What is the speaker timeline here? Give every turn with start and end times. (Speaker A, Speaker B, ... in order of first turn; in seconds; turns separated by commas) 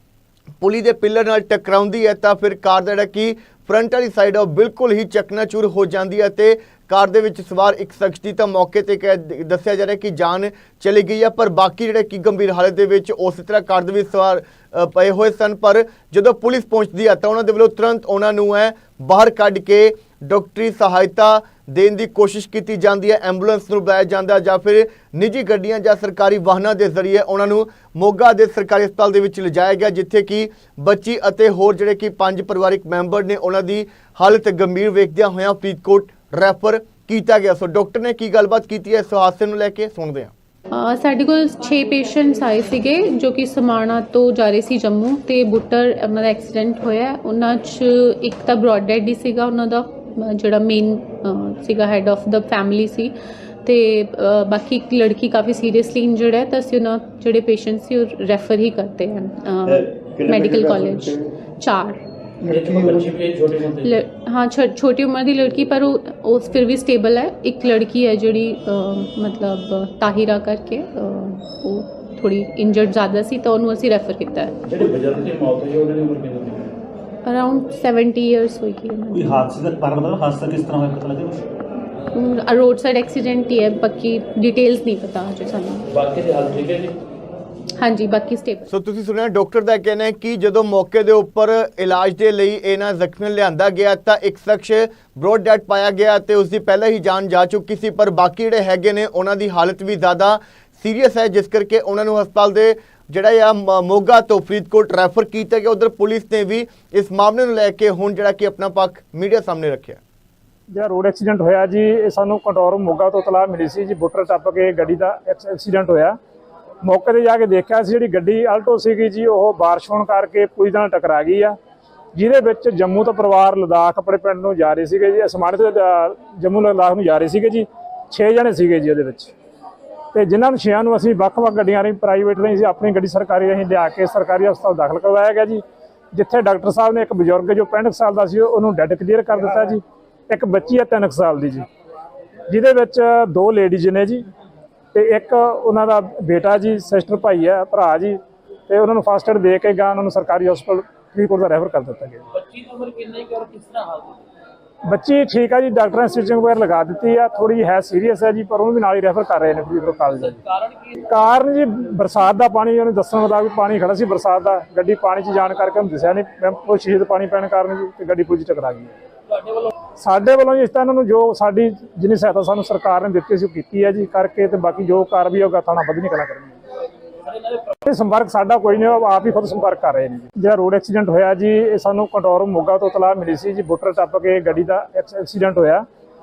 Speaker A: 0.6-40.3, Speaker B: 40.7-53.1, Speaker B: 53.6-62.0, Speaker A: 60.3-61.0, Speaker C: 62.4-64.0, Speaker B: 63.8-74.6, Speaker C: 74.7-76.7, Speaker B: 77.3-79.4, Speaker D: 79.1-81.4, Speaker B: 82.1-85.9, Speaker C: 85.9-87.0, Speaker B: 87.8-88.7, Speaker A: 88.7-110.0, Speaker E: 110.7-116.2, Speaker E: 116.8-121.5, Speaker E: 122.2-129.3, Speaker E: 130.1-141.7, Speaker E: 142.5-144.2, Speaker E: 144.9-148.2, Speaker E: 148.7-152.2, Speaker C: 152.3-154.2, Speaker E: 154.8-160.4, Speaker C: 160.3-160.9, Speaker E: 161.1-168.9, Speaker C: 169.3-169.7, Speaker E: 170.0-176.6, Speaker E: 177.7-185.8